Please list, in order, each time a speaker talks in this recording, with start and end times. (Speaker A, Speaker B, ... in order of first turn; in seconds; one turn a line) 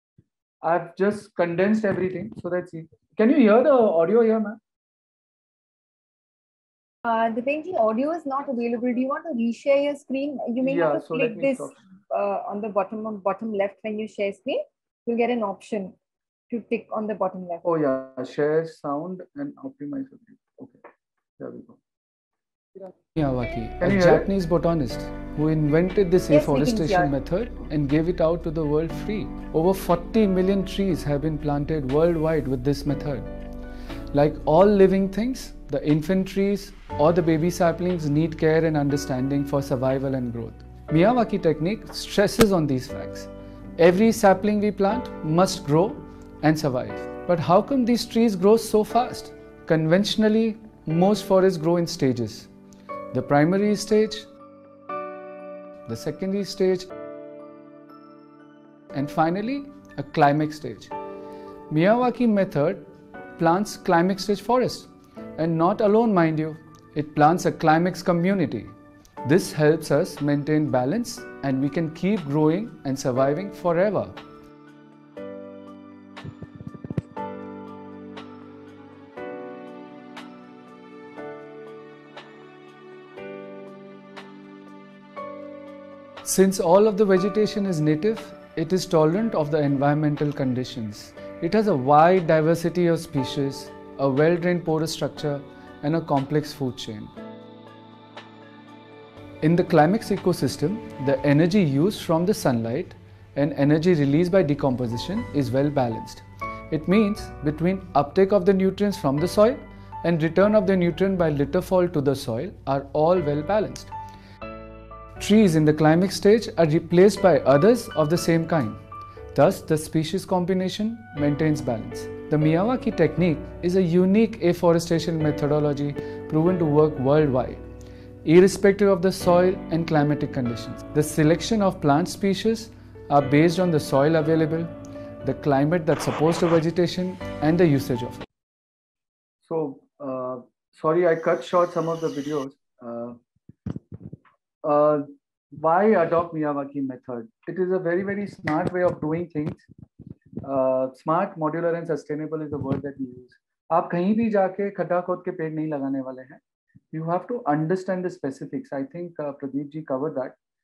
Speaker A: 0.6-4.6
Speaker B: 7.0-15.9
Speaker A: 10.6-11.8
Speaker B: 16.5-17.6
Speaker A: 17.6-20.8
Speaker A: 21.4-21.8
Speaker C: 23.1-33.3
Speaker A: 23.8-24.3
Speaker B: 26.3-27.1
Speaker C: 34.1-52.5
Speaker C: 53.1-54.3
Speaker C: 55.9-56.9
Speaker C: 58.9-60.9
Speaker C: 61.7-74.2
Speaker C: 86.2-97.1
Speaker C: 99.4-113.9
Speaker C: 115.2-118.8
Speaker C: 119.3-127.6
Speaker C: 128.2-138.2
Speaker A: 139.4-143.2
Speaker A: 144.6-149.6
Speaker A: 150.4-156.4
Speaker A: 156.9-160.4